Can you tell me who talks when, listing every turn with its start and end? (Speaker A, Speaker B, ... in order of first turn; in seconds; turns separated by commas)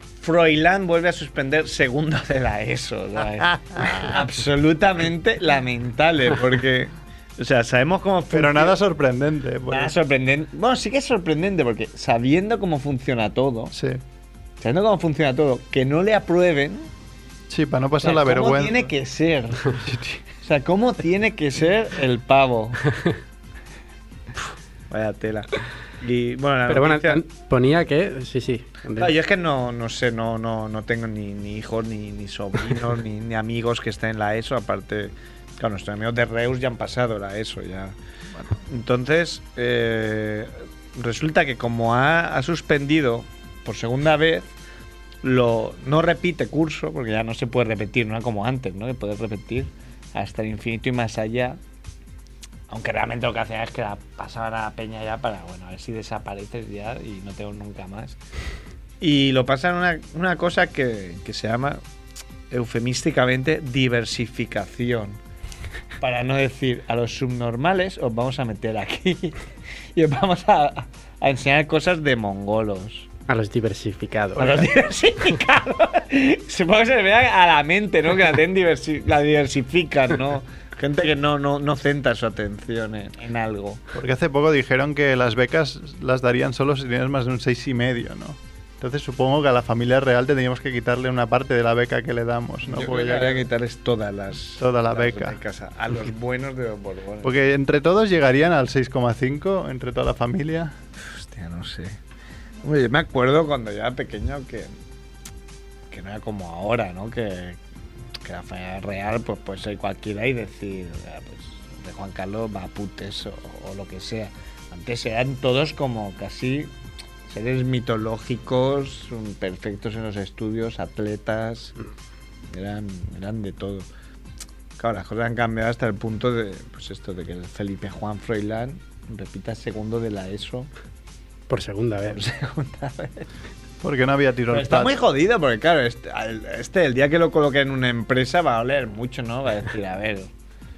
Speaker A: 0.2-8.8, Speaker B: 8.3-9.9, Speaker A: 9.7-13.8, Speaker B: 13.7-14.0, Speaker A: 14.6-16.9, Speaker B: 17.5-18.9, Speaker A: 18.0-19.8, Speaker B: 19.8-20.2, Speaker A: 20.4-22.8, Speaker A: 24.9-27.2, Speaker C: 26.7-29.1, Speaker A: 29.0-38.0, Speaker A: 38.6-44.5, Speaker A: 45.2-51.6, Speaker A: 52.7-58.2, Speaker A: 59.0-61.8, Speaker A: 62.5-65.2, Speaker A: 66.0-69.4, Speaker A: 70.0-73.1, Speaker C: 73.3-74.7, Speaker A: 74.4-83.8, Speaker B: 83.9-93.5, Speaker A: 92.7-97.3, Speaker B: 94.6-95.4, Speaker B: 97.2-100.8, Speaker A: 101.0-102.0, Speaker A: 102.6-104.7, Speaker A: 105.9-107.6, Speaker A: 108.2-116.7, Speaker A: 117.3-121.8, Speaker A: 122.5-123.9, Speaker A: 124.8-130.7, Speaker C: 131.5-132.2, Speaker A: 132.1-133.3, Speaker B: 133.8-135.0, Speaker A: 134.5-140.3